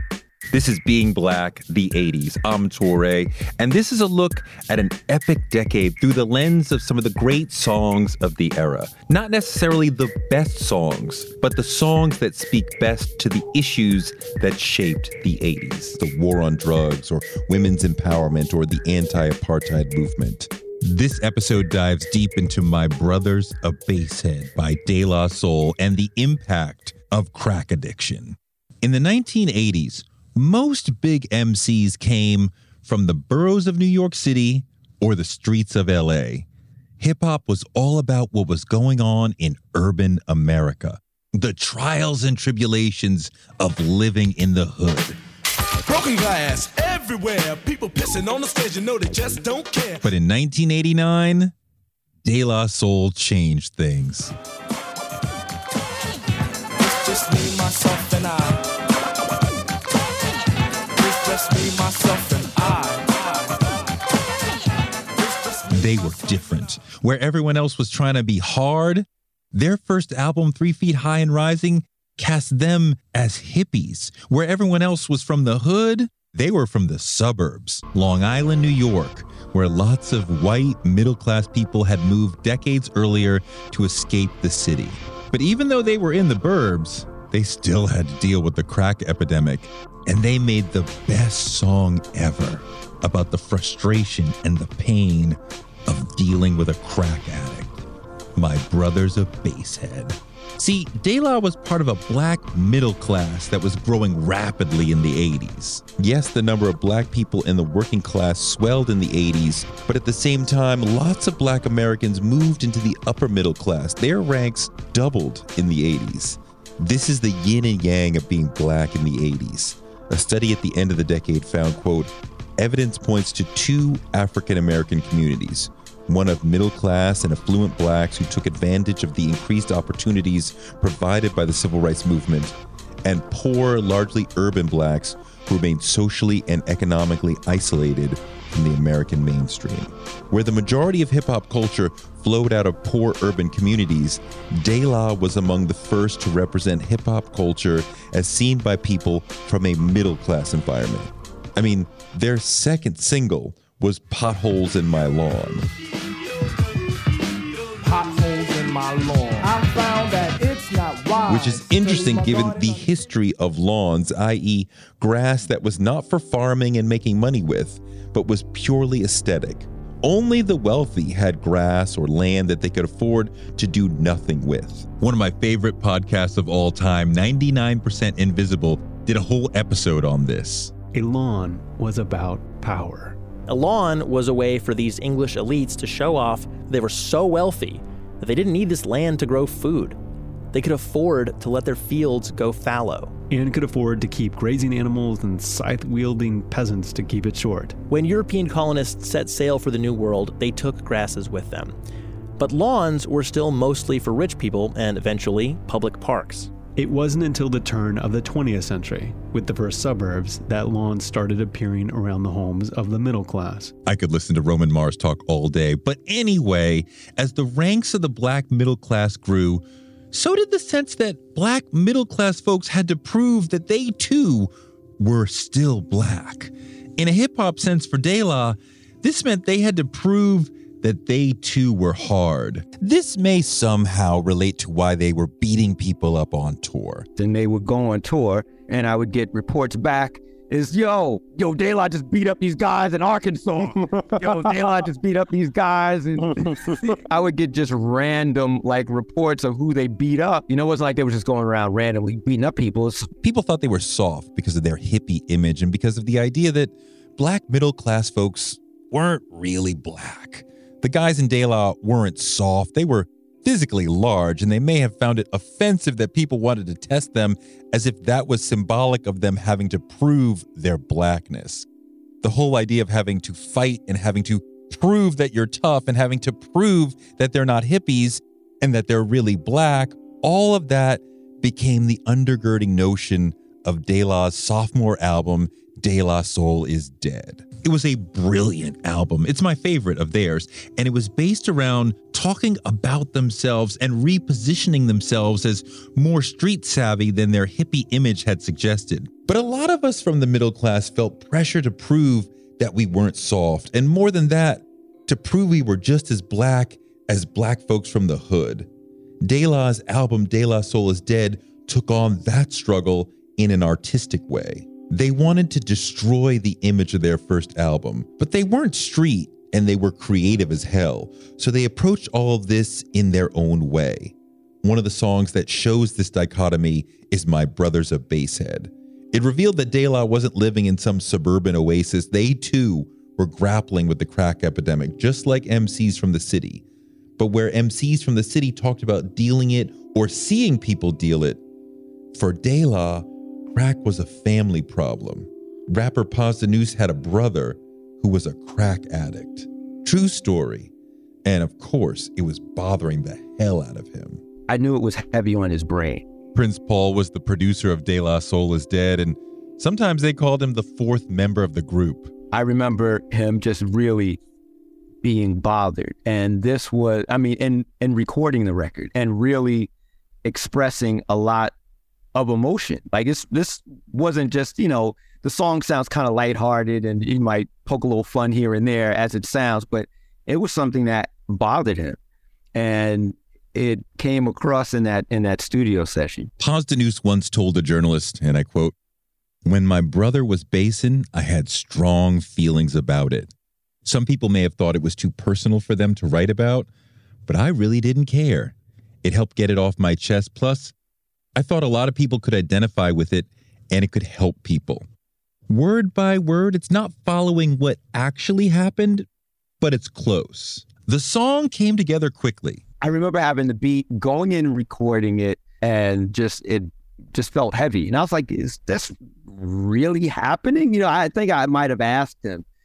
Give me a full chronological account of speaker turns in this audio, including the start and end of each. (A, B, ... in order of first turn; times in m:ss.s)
0:00.5-0:36.4 A
0:37.0-0:45.2 A
0:45.8-0:50.1 B
0:50.0-0:51.5 A
0:52.2-0:54.3 A
0:56.8-0:58.6 B
1:01.0-1:03.3 B
1:05.2-1:06.5 B
1:05.7-1:37.8 A
1:38.4-2:35.6 A
2:37.8-2:42.9 C
2:41.3-3:00.7 A
3:00.9-3:03.2 D
3:03.5-3:10.0 E
3:10.5-3:13.1 E
3:13.3-3:17.8 D
3:17.9-3:21.8 E
3:22.4-3:26.6 E
3:26.7-3:33.7 D
3:33.8-3:57.1 A
3:57.2-4:13.1 F
4:13.2-4:31.7 A
4:32.2-5:08.7 A
5:09.2-5:36.6 A
5:37.2-5:41.4 A
5:42.1-5:50.7 A
5:51.2-5:54.2 A
5:54.5-5:56.0 F
5:56.3-6:02.1 A
6:02.3-6:04.2 F
6:05.0-6:09.7 F
6:10.2-6:11.5 F
6:12.1-6:22.0 F
6:22.5-6:26.3 F
6:26.4-6:28.7 A
6:29.4-6:33.3 A
6:33.8-6:36.7 A
6:37.3-6:40.7 A
6:41.4-6:44.8 A
6:45.5-6:49.0 A
6:49.6-6:52.6 A
6:52.8-7:02.4 F